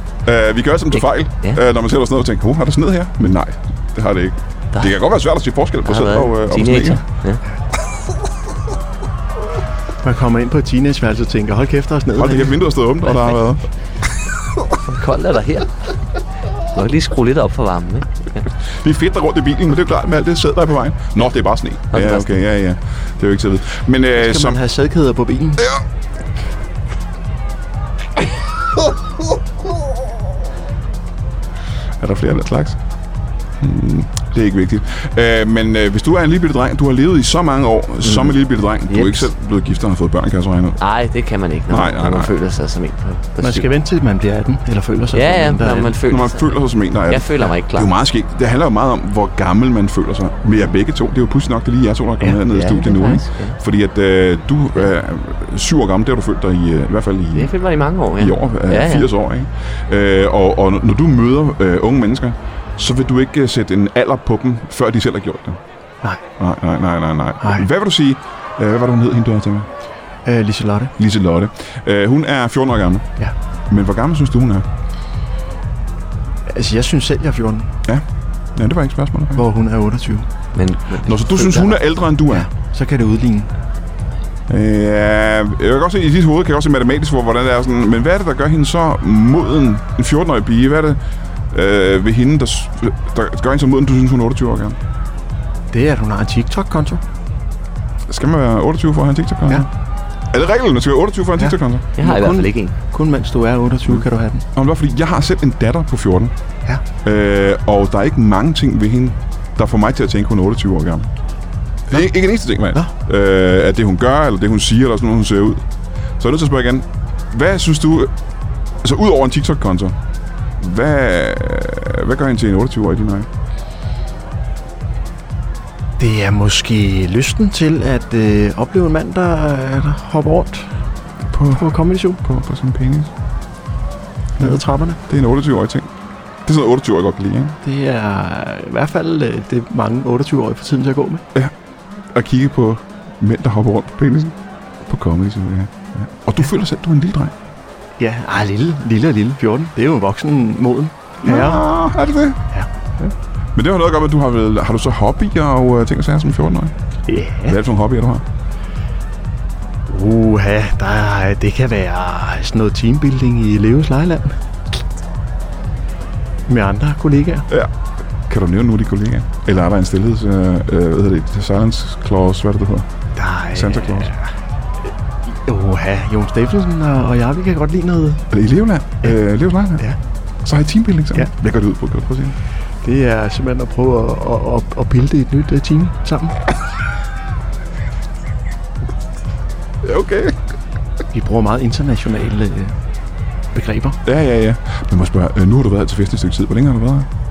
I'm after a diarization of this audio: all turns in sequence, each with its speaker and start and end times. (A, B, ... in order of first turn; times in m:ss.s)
0:00.2-0:07.0 A
0:00.9-0:01.6 B
0:05.8-0:07.4 B
0:10.0-0:12.6 C
0:12.1-0:13.6 A
0:13.1-0:13.4 B
0:14.8-0:15.7 B
0:16.7-0:18.4 B
0:18.8-0:24.6 A
0:21.9-0:22.3 B
0:24.1-0:25.7 C
0:32.0-0:32.8 A
0:33.6-0:40.8 A
0:38.0-0:38.4 B
0:38.9-0:39.3 B
0:40.8-0:43.7 B
0:41.7-0:42.3 A
0:43.4-0:46.0 C
0:45.1-0:47.9 B
0:46.1-0:57.5 A
0:52.2-0:53.5 B
0:57.3-0:59.1 B
0:58.2-1:05.6 A
1:06.4-1:09.7 A
1:07.4-1:07.7 C
1:10.2-1:10.9 C
1:11.0-1:13.1 A
1:13.7-1:14.6 A
1:16.5-1:17.8 C
1:17.8-1:19.4 A
1:19.4-1:20.2 C
1:20.5-1:21.8 B
1:21.0-1:22.5 A
1:22.3-1:23.5 C
1:24.5-1:31.0 A
1:31.5-1:34.8 A
1:35.7-1:37.0 C
1:38.1-1:39.7 A
1:40.3-1:41.8 A
1:41.4-1:44.4 C
1:42.0-1:42.7 B
1:44.5-1:46.3 A
1:47.0-1:51.1 A
1:51.9-1:55.6 A
1:56.2-1:58.1 A
1:58.8-1:59.9 A
2:00.6-2:03.3 A
2:06.0-2:10.7 C
2:11.3-2:11.6 A
2:11.5-2:12.2 C
2:12.2-2:13.1 A
2:14.4-2:15.9 A
2:14.4-2:15.0 C
2:16.4-2:17.6 A
2:17.6-2:21.2 C
2:22.1-2:27.3 A
2:28.0-2:31.6 C
2:31.2-2:32.4 A
2:33.0-2:36.7 A
2:37.1-2:37.6 C
2:37.4-2:38.2 A
2:39.9-2:44.4 C
2:46.5-2:47.5 C
2:48.3-2:52.9 A
2:53.2-2:54.3 C
2:53.5-2:54.1 A
2:55.2-2:58.3 C
2:58.3-2:59.8 A
3:00.4-3:02.4 A
3:02.8-3:06.4 C
3:09.8-3:10.4 A
3:11.1-3:12.8 C
3:13.5-3:14.0 C
3:14.0-3:17.1 A